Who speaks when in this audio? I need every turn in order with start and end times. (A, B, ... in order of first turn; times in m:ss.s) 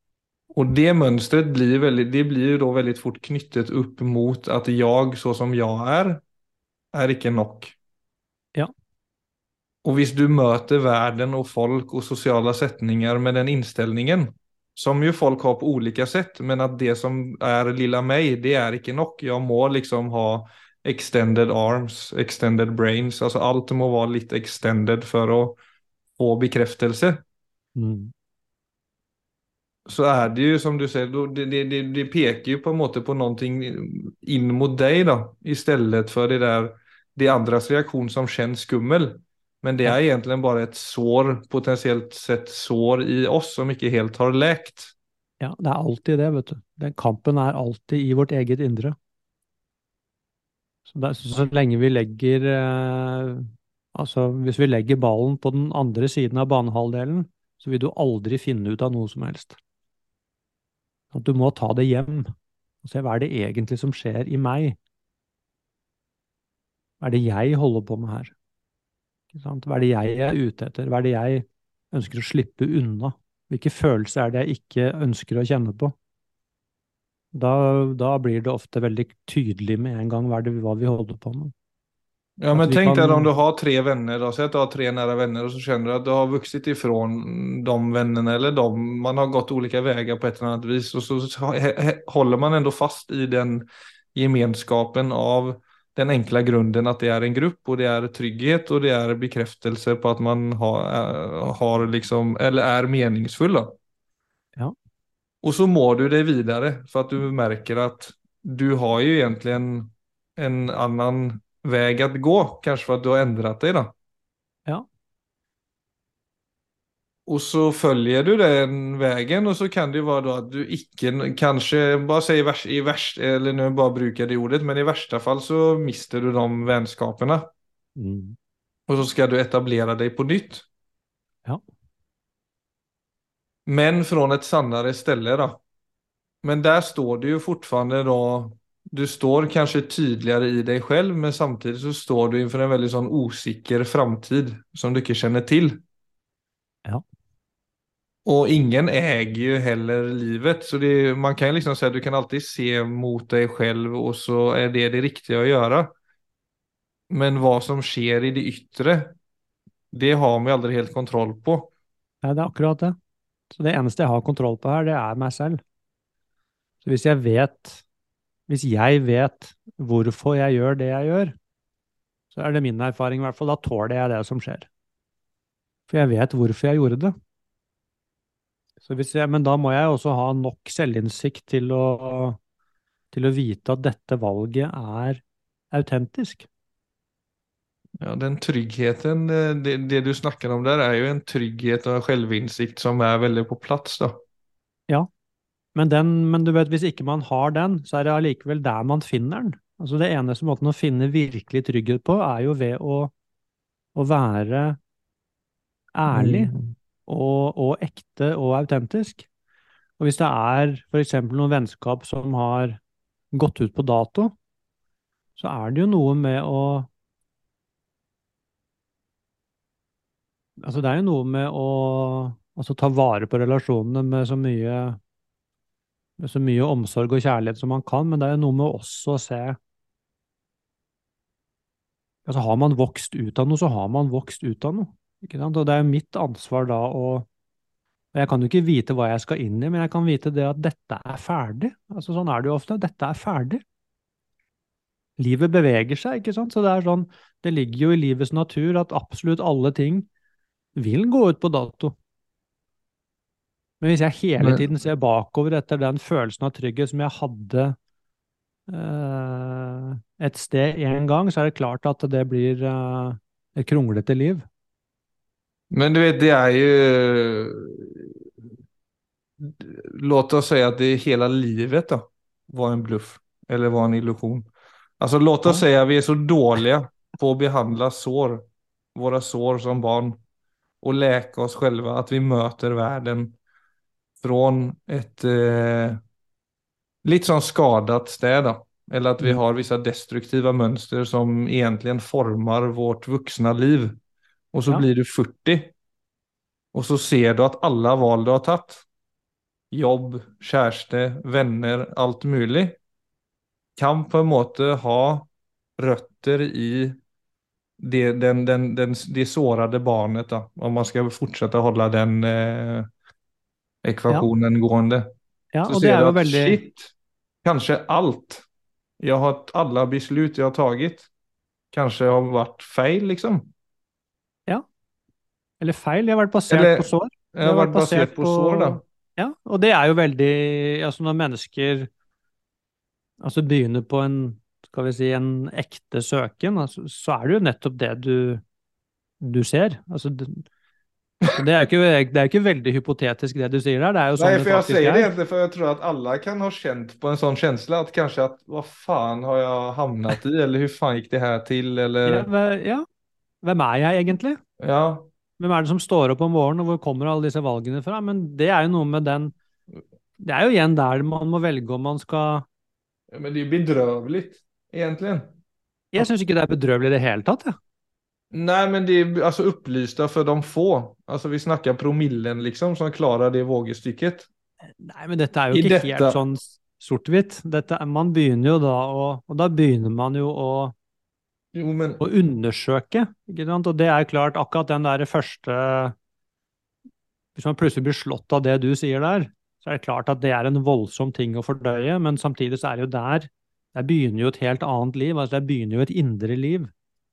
0:00.5-0:06.2 A
0:06.9-0:07.8 A
0:09.8-0:25.6 A
0:26.2-0:27.2 A
0:27.8-0:28.1 B
0:29.9-0:45.0 A
0:45.4-0:49.0 B
0:50.9-0:59.6 B
1:01.1-1:02.3 B
1:02.8-1:04.8 B
1:07.0-1:08.3 B
1:09.3-1:15.9 B
1:17.3-1:21.5 B
1:22.4-1:43.8 A
1:22.5-1:23.3 B
1:45.4-1:53.9 A
1:57.3-2:07.5 A
2:08.0-2:08.4 B
2:08.9-2:10.7 A
2:13.7-2:15.6 A
2:16.4-2:25.8 A
2:28.2-2:35.9 A
2:37.1-2:39.2 A
2:39.9-2:41.7 A
2:42.2-2:43.0 B
2:43.5-2:45.6 B
2:46.8-2:47.8 B
2:48.5-2:51.3 B
2:52.3-2:54.7 B
2:55.9-2:57.1 B
2:58.8-3:02.4 B
3:03.1-3:06.5 B
3:08.0-3:14.2 A
3:15.8-3:23.1 B
3:24.0-3:24.8 B
3:26.0-3:26.5 B
3:26.1-3:26.7 A
3:27.1-3:29.3 B
3:30.0-3:32.8 B
3:33.3-3:34.4 B
3:35.4-3:36.9 B
3:40.6-3:45.0 B
3:46.2-3:49.6 B
3:52.3-3:57.3 B
3:58.1-4:03.6 B
4:05.2-4:10.1 B
4:10.8-4:12.0 B
4:13.8-4:17.8 B
4:14.4-4:14.6 A
4:18.7-4:24.4 B
4:25.7-4:28.5 A
4:29.4-4:34.5 A
4:35.0-4:38.4 A
4:39.0-4:40.2 A
4:40.8-4:43.3 A
4:44.2-4:46.0 A
4:47.0-4:54.0 A
4:54.5-4:55.7 A
4:56.7-4:58.8 A
4:59.7-5:02.8 A
5:03.8-5:07.0 A
5:07.8-5:12.9 A
5:13.8-5:15.1 A
5:15.5-5:16.6 B
5:15.7-5:16.9 A
5:17.4-5:18.4 A
5:19.0-5:21.1 A
5:21.7-5:23.5 A
5:25.6-5:31.9 B
5:26.5-5:28.8 A
5:33.2-5:38.4 B
5:39.2-5:40.4 B
5:41.3-5:45.1 B
5:44.2-5:52.3 A
5:52.0-5:52.8 B
5:53.4-5:54.4 B
5:54.6-5:55.1 A
5:55.4-5:59.3 B
6:00.2-6:02.4 B
6:03.1-6:05.4 A
6:05.9-6:07.6 B
6:08.3-6:14.3 A
6:14.8-6:20.7 B
6:15.5-6:16.2 A
6:21.5-6:22.0 A
6:22.0-6:25.9 B
6:27.4-6:36.7 B